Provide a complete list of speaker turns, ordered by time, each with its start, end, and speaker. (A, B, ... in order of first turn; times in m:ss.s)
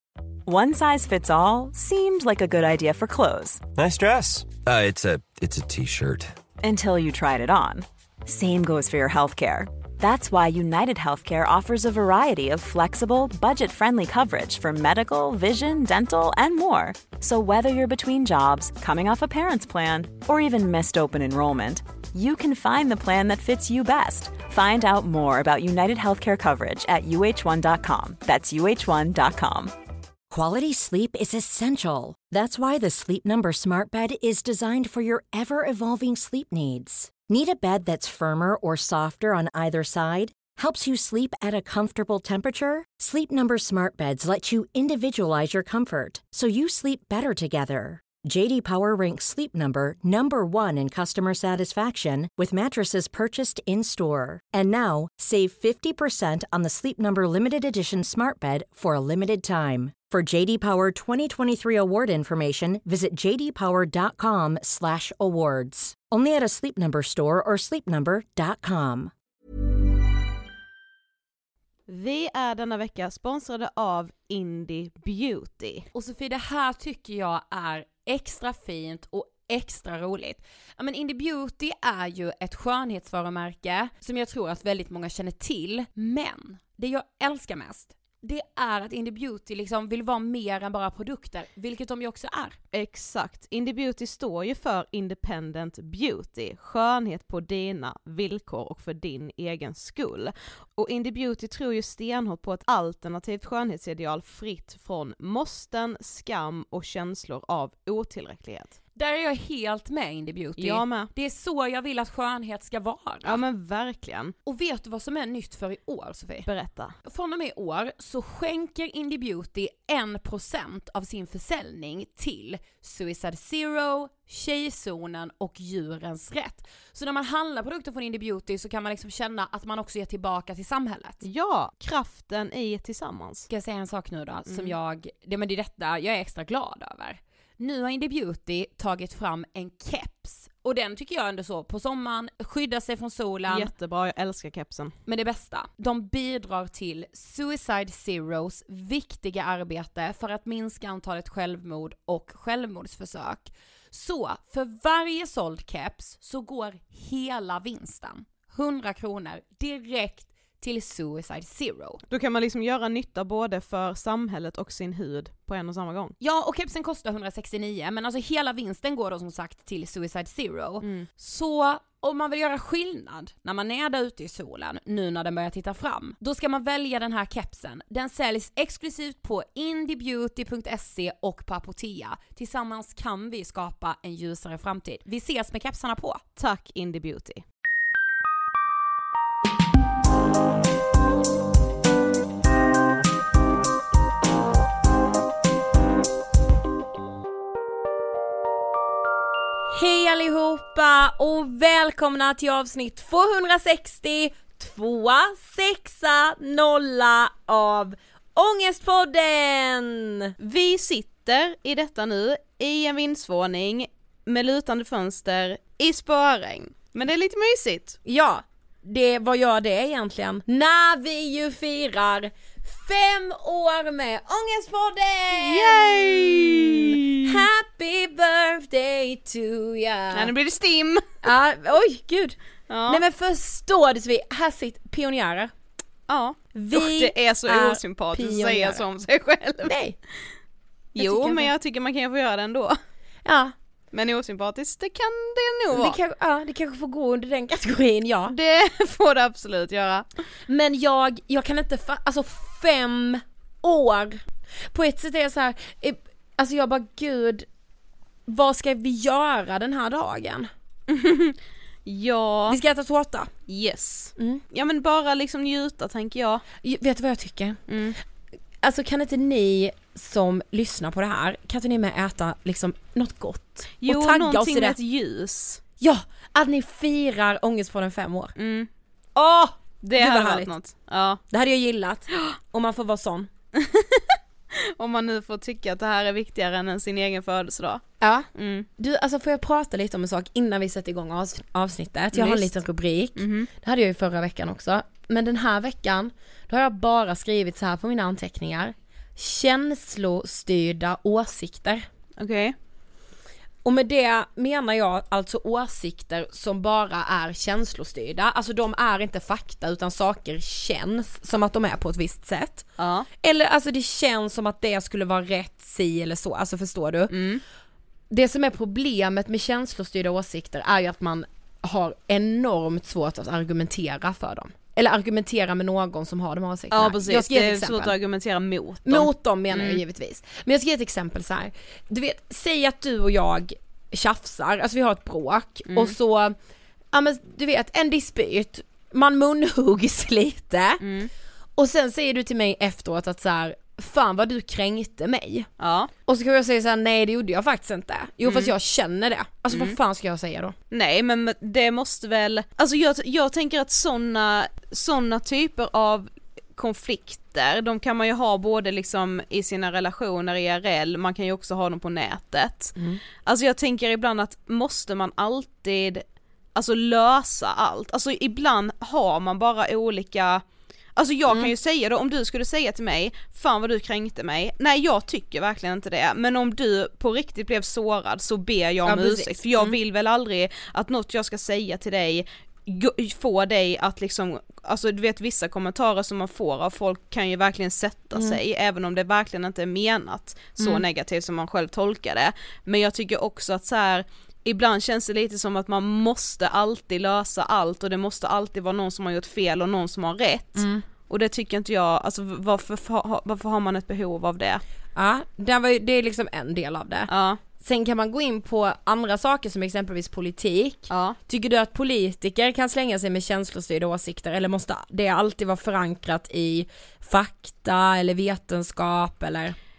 0:00.4-0:03.7 A
0:03.8-0:06.3 B
0:06.6-0:29.7 A
0:30.3-1:09.1 C
1:11.9-1:15.9 D
1:15.9-1:32.6 E
1:32.7-1:48.8 D
1:48.9-1:53.4 E
1:50.6-1:51.1 D
1:53.2-1:54.3 D
1:54.4-1:56.5 E
1:56.4-1:56.9 D
1:57.0-2:11.2 E
2:11.2-2:13.5 D
2:13.5-2:23.7 E
2:14.5-2:14.7 D
2:23.5-2:24.9 D
2:25.0-2:42.0 E
2:42.1-2:46.1 D
2:46.2-3:06.2 E
2:50.8-2:51.1 D
3:06.4-3:07.4 D
3:19.7-3:30.3 E
3:30.4-3:38.0 D
3:38.0-3:50.3 E
3:45.4-3:47.4 D
3:50.1-3:51.0 D
3:51.2-3:55.5 E
3:52.7-3:53.0 D
3:56.1-3:59.8 D
3:56.5-3:58.8 E
3:59.6-4:00.0 E
4:01.0-4:02.8 D
4:01.0-4:01.5 E
4:03.2-4:03.5 E
4:03.9-4:06.0 D
4:05.7-4:08.4 E
4:08.3-4:10.0 D
4:10.5-4:17.5 E
4:18.3-4:20.5 E
4:20.9-4:22.6 D
4:22.5-4:23.3 E
4:23.5-4:26.4 D
4:26.6-4:27.6 E
4:27.7-4:28.0 D
4:28.6-4:34.8 E
4:33.8-4:35.6 D
4:35.8-4:38.3 E
4:38.4-4:38.7 D
4:39.2-4:40.5 E
4:39.8-4:41.2 D
4:41.3-4:43.3 E
4:43.6-4:47.8 D
4:48.0-5:01.8 E
4:48.3-4:48.7 D
4:52.1-4:52.5 D
4:53.2-4:53.5 D
5:02.2-5:02.5 D
5:03.6-5:17.1 E
5:12.8-5:13.1 D
5:17.1-5:17.4 D
5:18.1-5:27.9 E
5:26.7-5:29.8 D
5:28.8-5:36.4 E
5:35.7-5:35.9 D
5:36.9-5:40.8 E
5:40.8-5:41.1 D
5:41.6-5:45.5 E
5:45.6-5:45.9 D
5:46.1-5:50.5 E
5:48.2-5:48.5 D
5:49.5-5:49.8 D
5:50.7-6:06.0 D
6:06.5-6:10.4 D
6:11.0-6:44.6 D
6:11.3-6:11.5 E
6:18.8-6:19.8 E
6:28.1-6:28.4 E
6:30.6-6:30.8 E
6:40.6-6:40.8 E
6:44.9-6:59.6 E
6:47.1-6:47.4 D
6:50.9-6:51.2 D